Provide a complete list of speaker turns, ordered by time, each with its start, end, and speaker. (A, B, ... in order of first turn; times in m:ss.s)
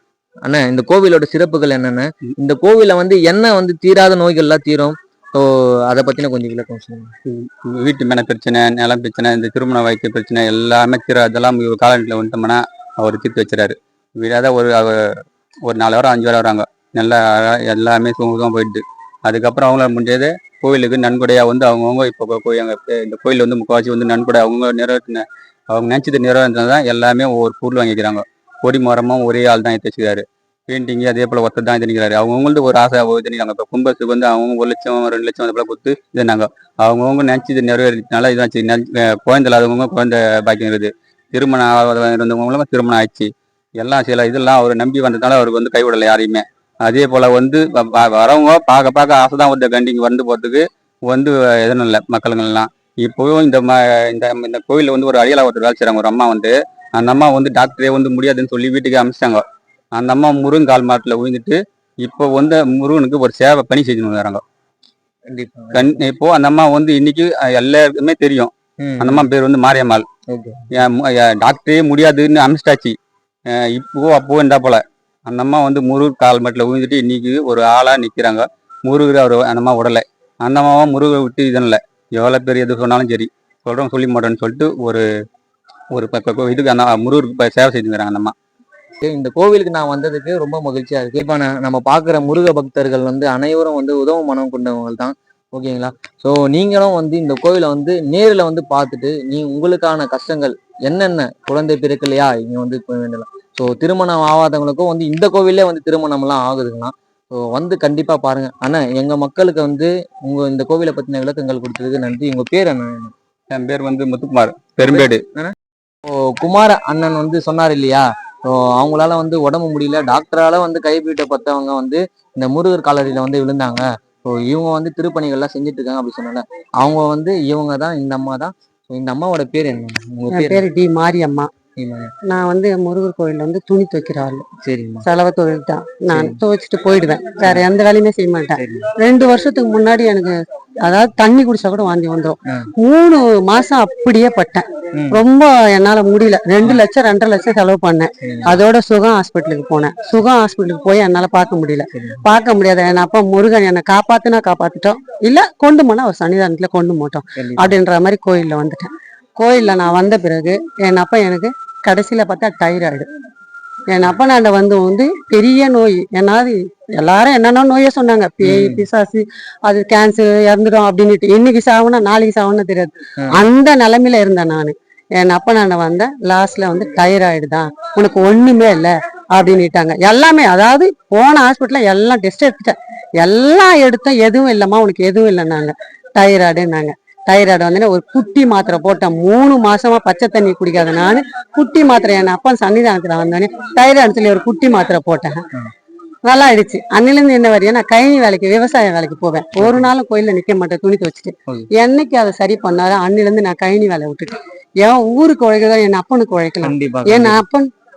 0:00.4-0:07.1 A
0:07.3-0:59.4 B
0:59.9-1:04.4 B
1:05.3-1:06.0 A
1:05.7-1:10.0 B
1:08.8-1:09.2 A
1:10.3-1:10.6 A
1:10.7-1:13.0 B
1:13.5-1:25.0 B
1:25.9-1:28.3 B
1:29.0-1:53.1 A
1:53.5-1:55.2 B
1:54.8-1:55.5 A
1:56.1-2:10.6 A
2:10.3-2:11.5 C
2:11.8-2:12.1 A
2:12.3-2:14.4 C
2:14.6-2:15.0 A
2:15.0-2:20.3 C
2:16.1-2:16.4 A
2:18.6-2:18.9 A
2:20.9-2:43.1 C
2:24.9-2:25.2 A
2:28.2-2:28.6 A
2:31.9-2:32.2 A
2:37.4-2:37.7 A
2:43.9-3:15.4 C
2:48.4-2:48.8 A
3:16.2-3:27.7 C
3:19.6-3:19.9 A
3:26.6-3:27.4 A